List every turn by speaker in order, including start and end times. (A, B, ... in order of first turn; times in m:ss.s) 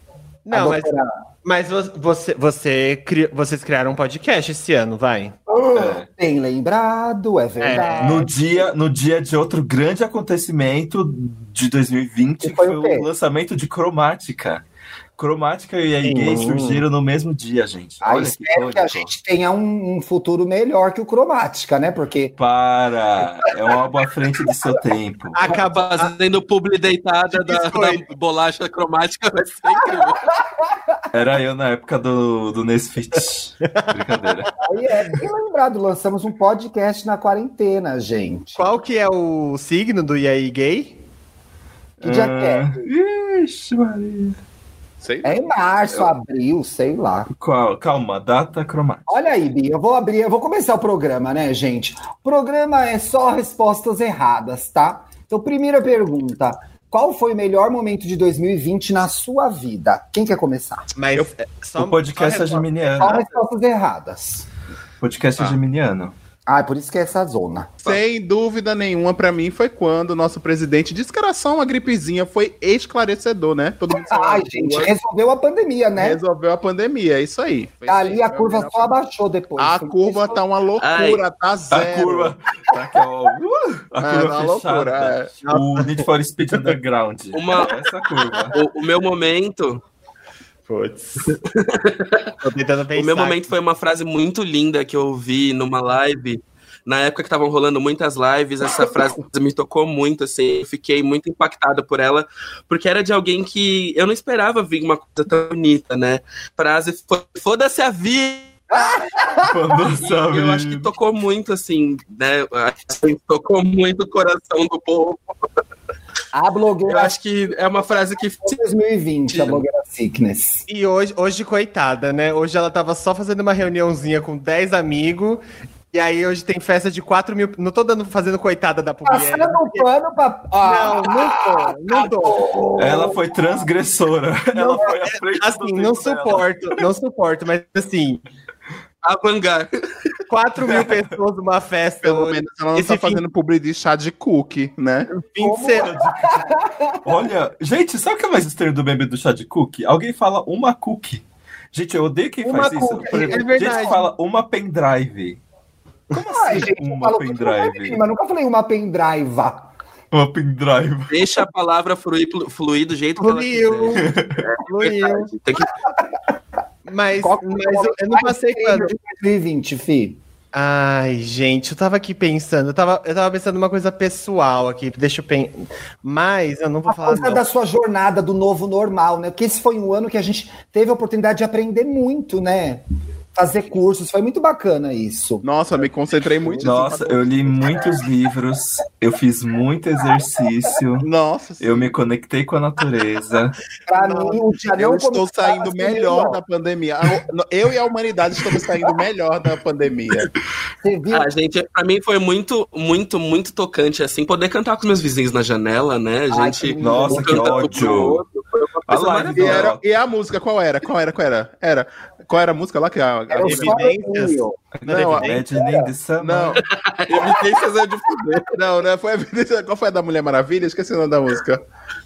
0:00.4-0:05.4 A
0:00.5-0:01.1 B
0:05.5-0:08.4 B
0:05.7-0:06.1 C
0:07.6-0:08.3 A
0:08.0-0:14.6 C
0:12.4-0:13.1 B
0:15.2-0:19.1 C
0:16.0-0:16.8 A
0:18.0-0:22.4 B
0:22.4-0:25.4 C
0:25.3-0:26.1 A
0:25.5-0:30.3 D
0:27.3-0:28.0 A
0:30.4-0:31.0 B
0:31.1-0:34.5 C
0:33.7-0:34.5 A
0:34.6-0:38.8 B
0:38.6-0:41.0 A
0:42.0-0:44.4 C
0:42.0-0:42.8 B
0:45.0-0:45.4 E
0:45.2-0:47.3 B
0:47.4-0:49.1 C
0:49.1-1:00.9 B
1:01.0-1:03.4 A
1:01.8-1:03.2 C
1:03.0-1:04.5 B
1:05.0-1:06.1 C
1:06.5-1:07.7 B
1:07.8-1:14.9 E
1:14.0-1:16.2 B
1:16.0-1:18.9 E
1:17.9-1:20.4 B
1:19.6-1:22.3 E
1:20.8-1:21.2 D
1:21.7-1:28.6 C
1:24.0-1:25.3 E
1:25.4-1:26.0 A
1:27.3-1:27.7 D
1:28.5-1:29.8 D
1:30.7-1:31.4 A
1:31.4-1:32.3 D
1:32.4-1:33.5 A
1:33.0-1:48.8 D
1:48.7-1:49.6 B
1:49.4-1:50.9 C
1:50.0-1:55.2 D
1:56.3-1:57.2 B
1:56.9-1:58.6 D
1:58.4-2:00.6 B
1:59.3-1:59.6 D
2:00.7-2:09.9 A
2:09.1-2:13.3 B
2:10.6-2:12.4 A
2:12.8-2:16.8 C
2:14.5-2:18.2 A
2:19.0-2:19.7 D
2:20.3-2:23.2 A
2:20.6-2:21.1 C
2:22.0-2:25.1 E
2:25.1-2:25.9 A
2:25.4-2:27.1 B
2:25.7-2:35.4 C
2:32.4-2:34.1 A
2:33.1-2:33.4 B
2:36.1-2:38.0 C
2:36.1-2:39.7 B
2:40.1-2:41.2 C
2:41.1-2:45.7 D
2:43.2-2:44.1 A
2:44.0-2:44.4 C
2:44.6-2:45.3 A
2:46.8-2:48.9 A
2:47.2-2:50.2 B
2:50.5-2:57.4 A
2:56.9-3:02.8 B
3:03.4-3:05.4 B
3:05.4-3:07.8 E
3:06.4-3:06.8 B
3:06.6-3:11.1 C
3:11.0-3:12.0 E
3:11.6-3:13.6 C
3:13.9-3:16.4 B
3:13.9-3:14.4 A
3:14.8-3:20.3 E
3:20.8-3:21.3 B
3:21.1-3:29.7 D
3:26.3-3:28.0 B
3:26.8-3:28.2 C
3:28.9-3:29.8 C
3:29.3-3:33.8 E
3:33.3-3:34.6 B
3:33.4-3:35.4 A
3:34.7-3:36.6 C
3:34.9-3:35.4 E
3:35.5-3:35.9 B
3:36.2-3:41.6 E
3:36.6-3:38.5 D